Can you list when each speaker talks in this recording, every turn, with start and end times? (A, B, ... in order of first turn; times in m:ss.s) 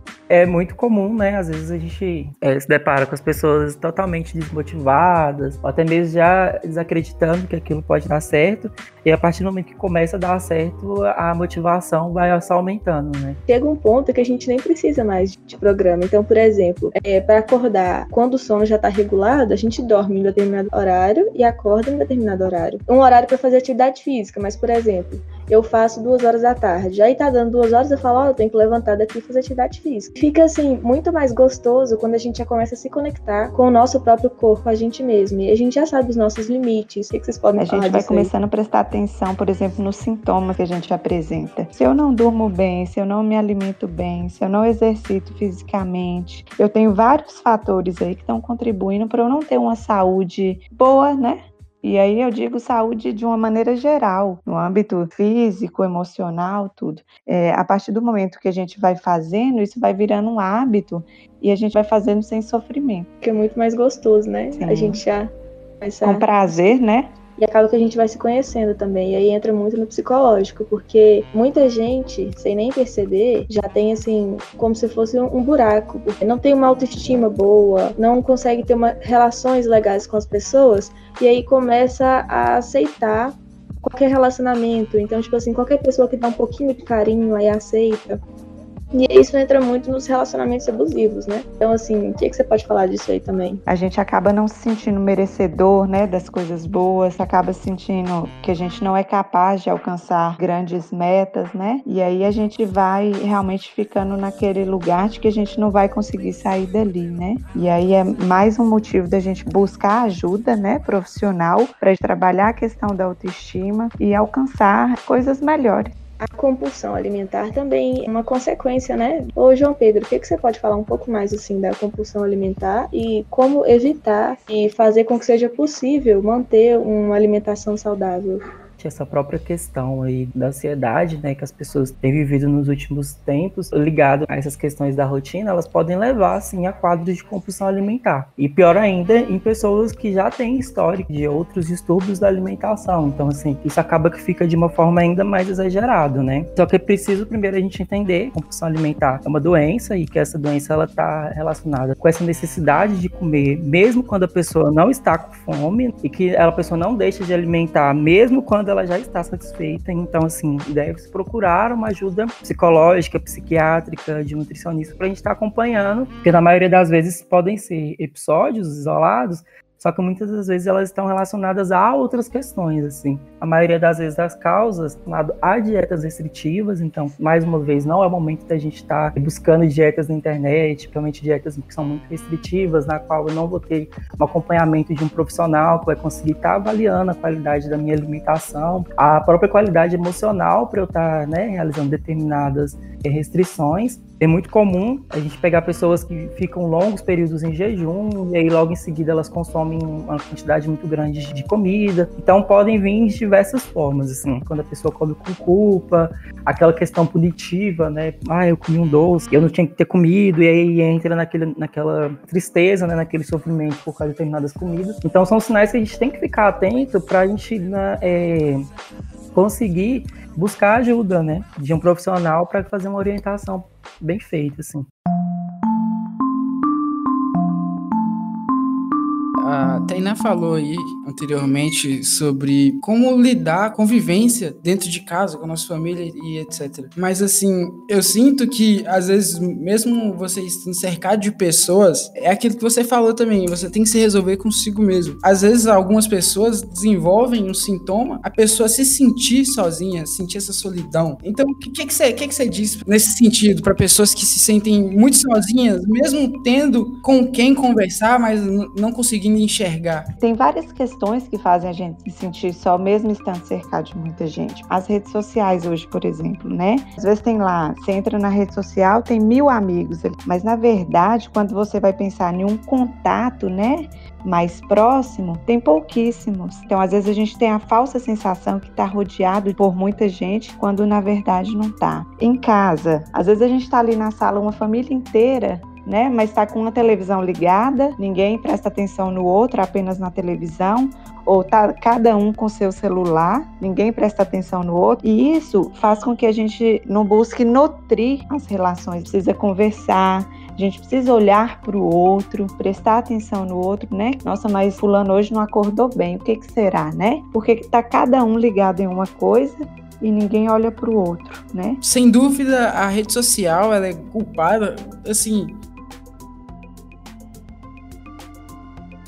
0:00.3-0:13.4 A
0:13.5-0:38.3 B
0:37.6-1:03.1 C
1:03.2-1:05.3 B
1:04.6-1:05.0 C
1:05.8-1:06.3 B
1:06.0-1:07.1 C
1:07.4-1:28.2 B
1:28.9-1:33.6 B
1:33.7-1:55.9 C
1:56.2-2:08.4 B
2:08.8-3:38.6 A
3:39.3-3:44.9 A
3:49.4-4:20.1 D
4:20.2-5:11.8 C
5:11.8-5:15.6 D